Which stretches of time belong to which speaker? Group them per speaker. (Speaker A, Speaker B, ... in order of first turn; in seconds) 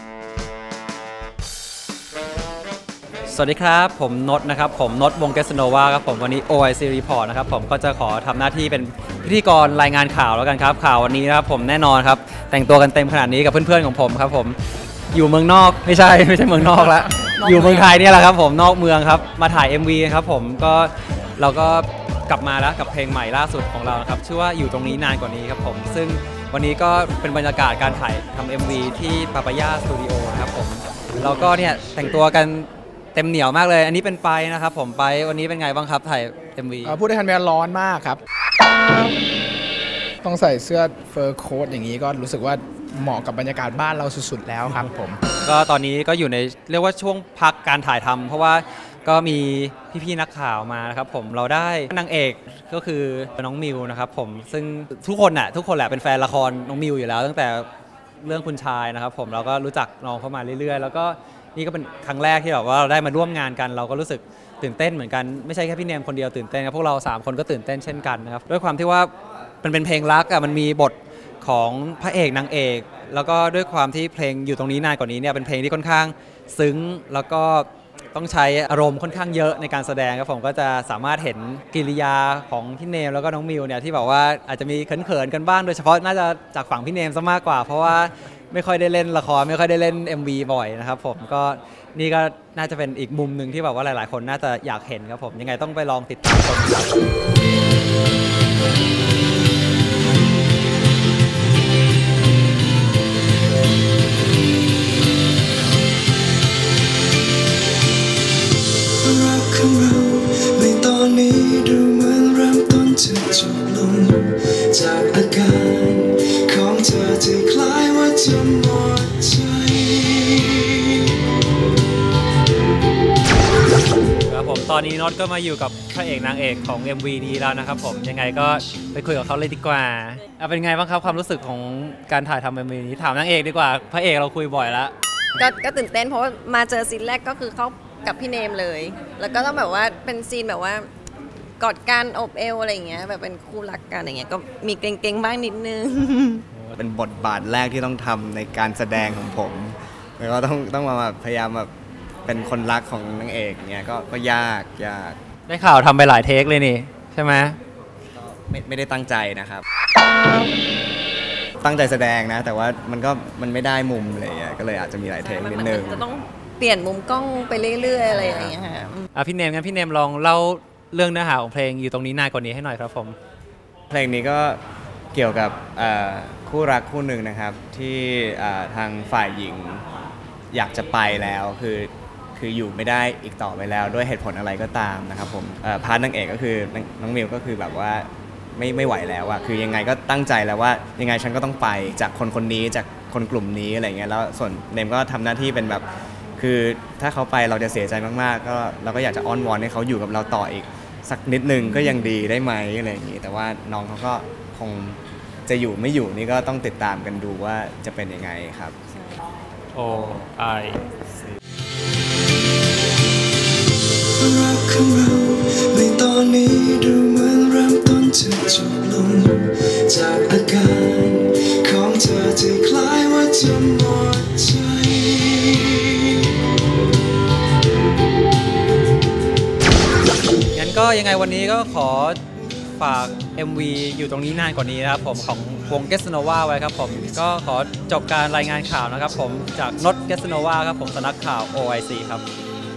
Speaker A: 3.3-14.6, 15.1-37.0, 45.4-57.7, 58.2-69.1, 69.6-97.0, 124.2-134.9, 155.5-157.6, 169.1-173.2, 209.7-210.8, 230.5-232.2, 232.8-242.2
Speaker B: 36.8-38.2, 40.2-45.2
Speaker C: 109.0-121.2, 214.2-226.3
Speaker D: 135.4-140.9, 141.6-146.4, 165.2-169.1
Speaker E: 146.8-151.7, 152.2-155.2, 158.4-159.6, 161.6-166.1, 173.9-174.6, 175.1-179.8, 180.5-195.8, 196.4-208.8